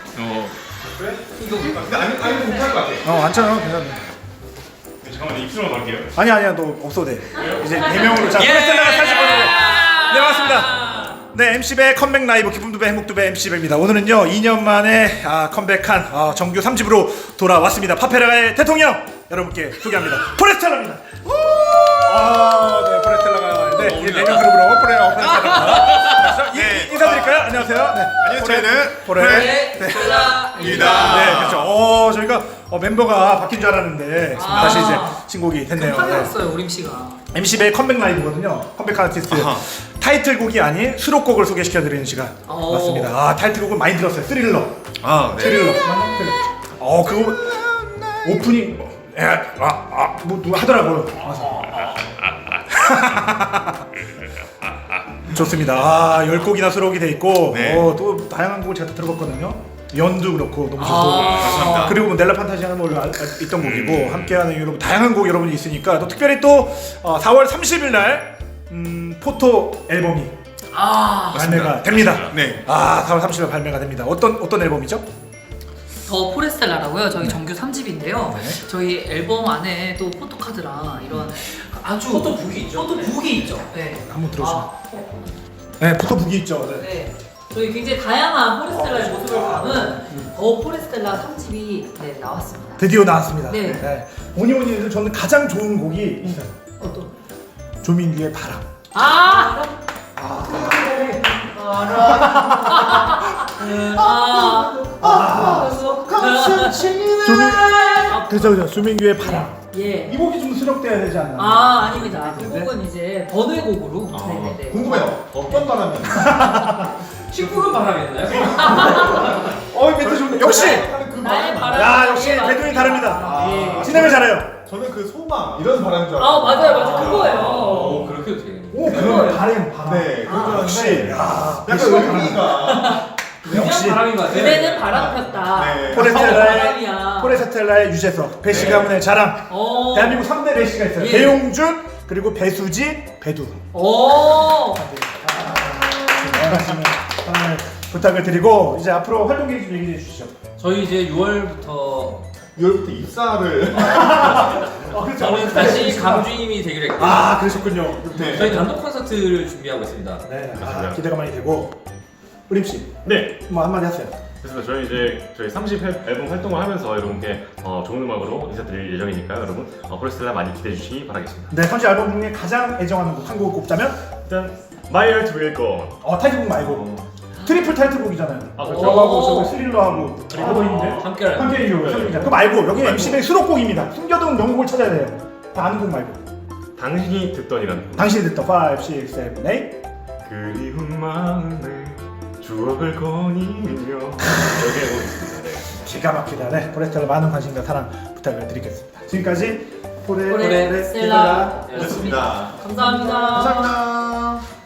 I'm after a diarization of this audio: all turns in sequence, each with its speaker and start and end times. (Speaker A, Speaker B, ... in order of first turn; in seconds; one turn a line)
Speaker A: 0.1-0.5
Speaker B: 0.9-3.1
Speaker C: 1.4-1.9
Speaker D: 3.0-4.0
Speaker A: 5.0-6.1
Speaker D: 6.1-21.2
Speaker A: 7.3-8.5
Speaker C: 8.3-9.5
Speaker E: 8.8-11.1
Speaker B: 21.4-22.0
Speaker D: 22.0-36.3
Speaker B: 25.4-31.7
Speaker E: 29.2-31.6
Speaker C: 30.2-30.9
Speaker E: 34.3-37.2
Speaker B: 34.5-35.0
Speaker D: 37.3-51.6
Speaker B: 39.3-39.6
Speaker E: 42.5-43.1
Speaker B: 45.0-45.8
Speaker B: 47.5-48.4
Speaker A: 51.6-52.3
Speaker D: 52.7-53.9
Speaker D: 55.2-70.3
Speaker B: 57.5-57.9
Speaker E: 60.8-62.0
Speaker B: 61.1-62.0
Speaker A: 63.6-64.3
Speaker E: 70.7-71.7
Speaker D: 71.3-75.0
Speaker A: 71.7-72.4
Speaker B: 72.3-72.6
Speaker E: 76.0-85.0
Speaker D: 78.2-78.6
Speaker C: 82.0-83.6
Speaker D: 84.0-84.7
Speaker D: 85.8-86.9
Speaker E: 86.7-93.9
Speaker D: 88.7-90.3
Speaker D: 92.8-96.7
Speaker E: 96.8-97.1
Speaker D: 97.8-98.6
Speaker E: 98.9-99.7
Speaker D: 100.2-103.5
Speaker E: 100.5-107.0
Speaker B: 103.8-107.7
Speaker D: 105.0-105.8
Speaker D: 107.2-112.7
Speaker E: 107.9-108.6
Speaker E: 109.2-110.2
Speaker E: 111.4-115.6
Speaker A: 114.1-114.8
Speaker B: 114.6-116.7
Speaker D: 116.0-116.9
Speaker C: 117.3-119.6
Speaker B: 118.3-122.2
Speaker E: 118.4-119.4
Speaker D: 120.0-120.9
Speaker E: 120.4-124.1
Speaker D: 121.7-124.5
Speaker B: 123.2-127.9
Speaker E: 126.2-128.1
Speaker C: 126.7-129.4
Speaker D: 128.7-132.7
Speaker B: 128.8-133.0
Speaker E: 129.0-129.3
Speaker E: 130.3-130.6
Speaker E: 132.5-133.1
Speaker C: 133.4-135.4
Speaker D: 133.4-134.1
Speaker E: 134.1-137.4
Speaker B: 134.9-136.6
Speaker D: 135.9-143.6
Speaker B: 138.5-139.0
Speaker C: 138.5-138.9
Speaker E: 139.5-140.2
Speaker E: 141.0-141.4
Speaker E: 143.7-144.8
Speaker D: 144.5-150.3
Speaker E: 145.4-146.4
Speaker C: 150.6-152.2
Speaker B: 152.6-154.5
Speaker D: 153.7-156.3
Speaker C: 154.4-160.2
Speaker D: 156.9-158.7
Speaker B: 158.1-158.6
Speaker D: 160.2-161.8
Speaker A: 160.5-161.0
Speaker D: 162.5-164.1
Speaker A: 163.0-163.4
Speaker A: 164.4-171.5
Speaker D: 171.5-174.0
Speaker A: 174.2-176.0
Speaker D: 176.0-176.9
Speaker A: 176.6-177.0
Speaker D: 177.4-186.2
Speaker A: 178.6-180.8
Speaker E: 178.7-179.6
Speaker C: 180.3-182.3
Speaker A: 181.8-183.2
Speaker A: 186.8-188.2
Speaker D: 187.9-189.8
Speaker A: 190.2-195.7
Speaker D: 195.7-201.7
Speaker E: 200.3-203.7
Speaker C: 200.3-202.9
Speaker B: 201.7-204.4